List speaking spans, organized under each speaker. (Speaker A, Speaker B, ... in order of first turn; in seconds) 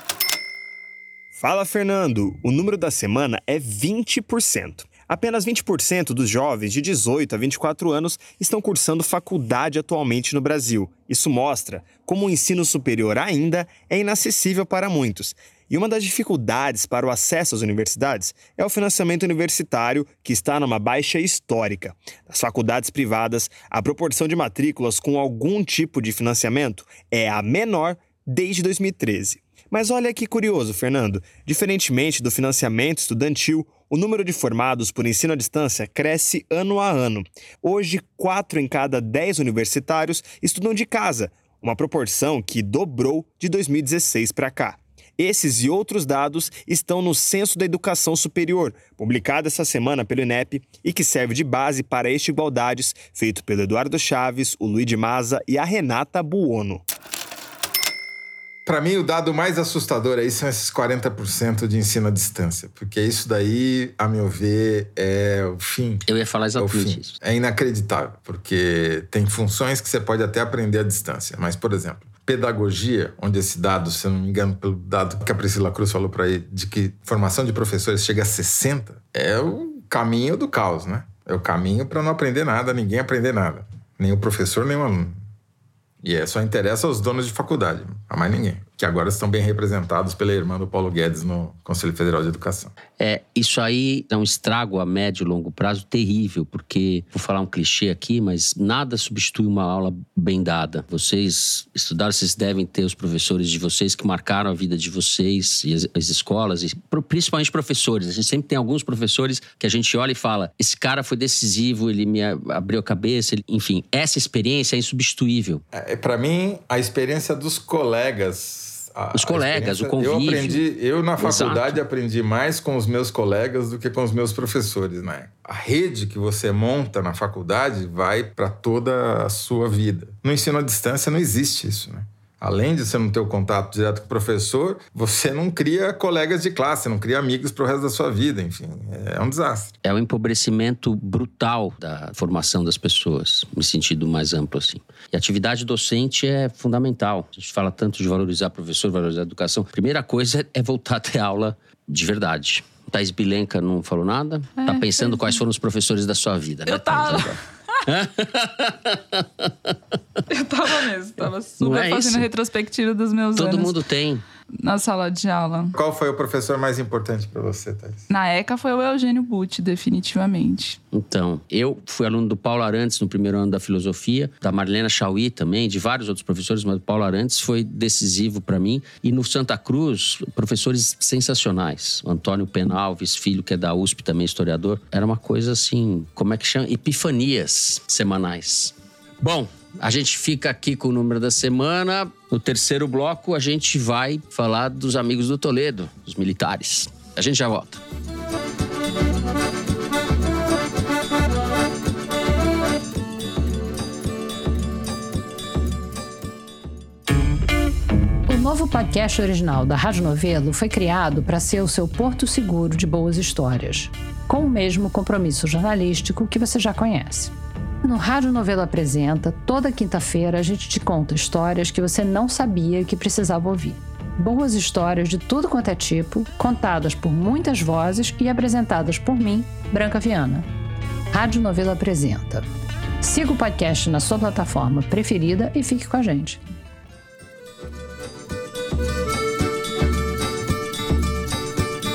Speaker A: 1.4-56.8
Speaker B: 58.7-66.0, 66.6-85.2, 86.0-92.7, 115.7-139.7, 165.7-168.1
Speaker C: 66.1-67.2, 93.0-115.6, 119.1-120.6, 121.2-121.8, 139.8-159.7, 161.6-162.3, 163.3-164.2, 170.9-197.8
Speaker D: 154.6-155.4, 156.7-157.4, 160.3-163.8, 164.6-165.7, 168.1-170.8
Speaker E: 208.3-230.5, 231.1-232.5, 233.0-236.4